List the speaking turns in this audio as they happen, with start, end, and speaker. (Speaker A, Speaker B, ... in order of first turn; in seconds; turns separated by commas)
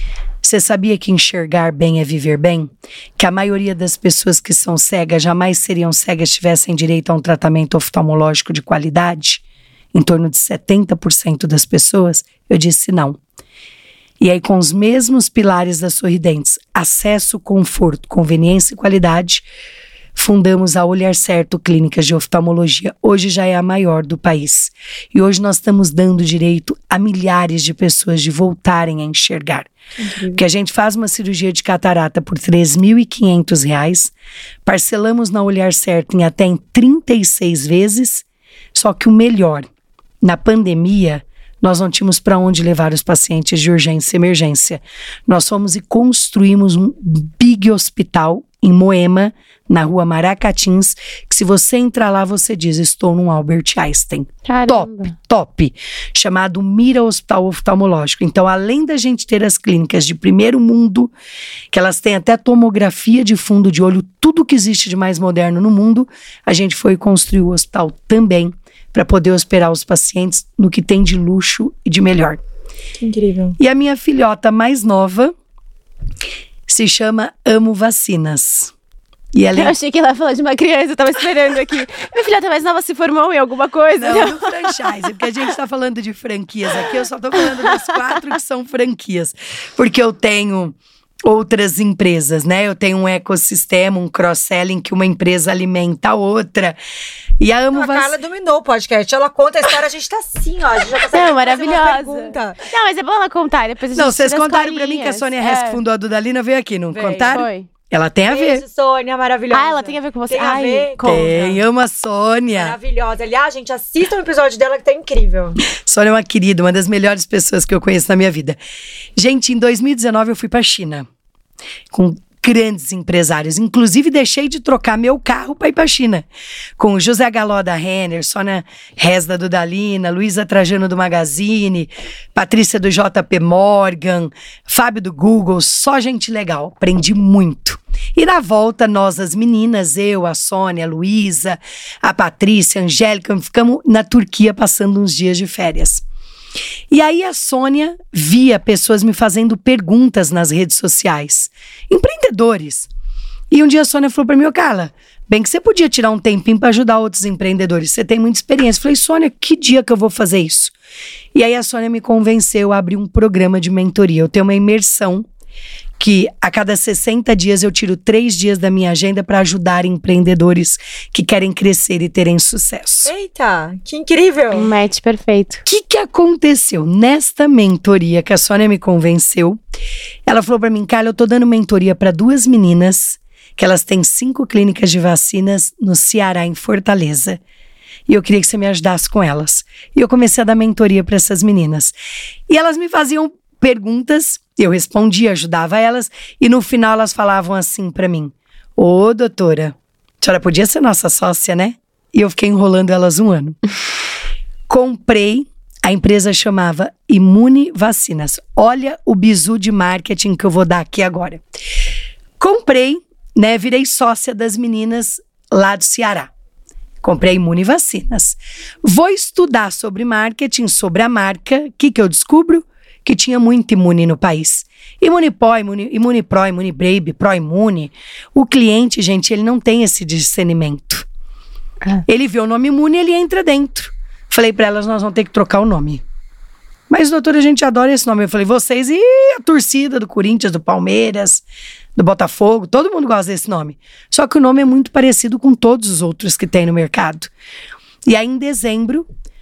Speaker A: 0.4-9.4, Speaker A: 9.9-13.2, Speaker A: 14.2-19.4, Speaker A: 20.1-29.7, Speaker B: 30.0-30.4, Speaker A: 30.3-34.1, Speaker A: 34.6-38.2, Speaker A: 38.7-39.7, Speaker A: 40.2-61.1, Speaker C: 54.5-55.1, Speaker A: 61.7-72.4, Speaker B: 73.0-73.6, Speaker A: 73.6-75.3, Speaker A: 76.7-78.7, Speaker A: 79.3-79.7, Speaker C: 79.5-84.5, Speaker A: 84.0-96.8, Speaker A: 97.4-98.1, Speaker B: 97.7-102.6, Speaker C: 101.1-105.8, Speaker A: 103.9-108.6, Speaker B: 106.9-107.4, Speaker C: 107.3-107.7, Speaker B: 108.3-111.6, Speaker C: 109.5-111.4, Speaker A: 111.0-112.8, Speaker B: 112.5-115.6, Speaker A: 115.7-118.6, Speaker A: 119.2-121.0, Speaker A: 121.9-126.2, Speaker A: 126.8-146.0, Speaker A: 146.9-152.9, Speaker A: 153.5-160.7, Speaker A: 161.3-165.2, Speaker A: 166.0-173.1, Speaker B: 173.0-174.7, Speaker C: 174.5-175.6, Speaker A: 175.6-179.6, Speaker A: 180.2-187.4, Speaker A: 188.1-191.9, Speaker A: 192.5-203.6, Speaker A: 204.7-211.4, Speaker A: 212.4-216.3, Speaker A: 217.0-231.1, Speaker A: 232.1-236.0, Speaker A: 236.9-241.4, Speaker A: 241.9-247.3, Speaker A: 248.1-249.1